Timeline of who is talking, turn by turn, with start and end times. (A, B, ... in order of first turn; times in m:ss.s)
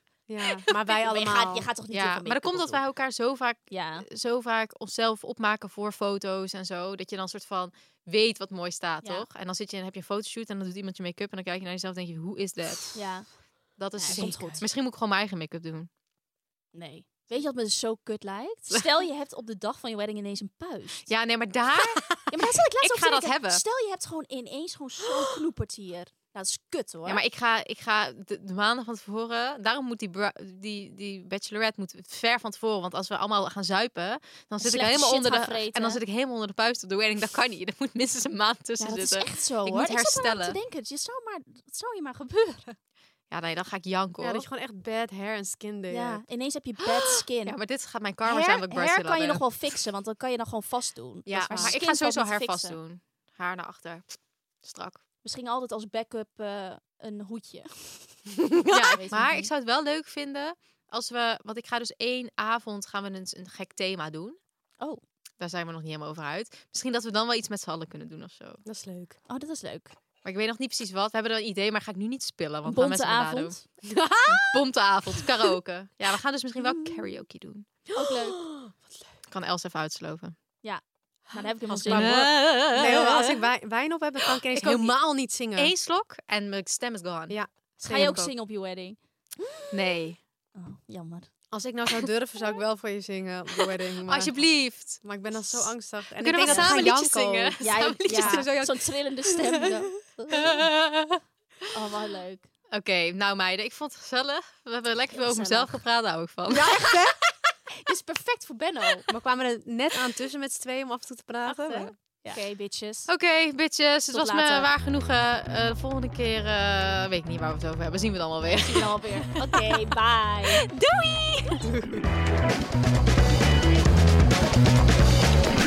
0:00.3-0:01.7 A
0:00.9-0:02.8 B
0:01.9-0:13.0 C
0:03.7-0:04.0 B
0:12.9-0:14.6 B
0:13.8-0:15.9 C
0:14.0-0:14.5 A
0:16.7-0:21.1 B
0:21.1-0:23.6 C
0:22.1-0:27.2 B
0:27.0-0:40.6 C
0:34.6-0:36.0 B
0:38.8-0:42.8 B
0:43.3-0:44.5 C
0:44.2-0:46.2 A
0:45.9-0:47.6 B
0:46.8-0:49.7 C
0:48.2-0:52.8 B
0:51.3-0:55.0 C
0:51.4-0:51.8 A
0:55.2-0:59.5 B
0:58.5-1:04.4 C
1:05.4-1:08.6 C
1:08.6-1:09.2 A
1:09.3-1:10.0 B
1:10.2-1:17.8 C
1:12.6-1:13.6 B
1:14.0-1:14.4 A
1:17.9-1:18.4 B
1:18.0-1:19.0 A
1:19.3-1:20.4 C
1:20.6-1:22.2 B
1:21.7-1:25.7 A
1:21.8-1:23.4 C
1:24.3-1:28.3 C
1:27.3-1:28.2 A
1:27.8-1:29.0 B
1:29.7-1:30.2 C
1:30.5-1:31.3 B
1:31.5-1:39.7 A
1:34.0-1:38.5 C
1:36.4-1:36.9 B
1:37.6-1:40.7 B
1:40.4-1:41.2 C
1:41.7-1:42.5 B
1:42.7-1:47.2 C
1:45.1-1:45.8 B
1:46.5-1:47.2 B
1:47.8-1:49.1 B
1:49.1-1:51.9 A
1:51.5-1:53.1 B
1:53.1-1:59.7 C
1:54.1-1:54.7 B
1:58.5-2:00.7 B
2:00.6-2:01.0 C
2:01.6-2:02.0 A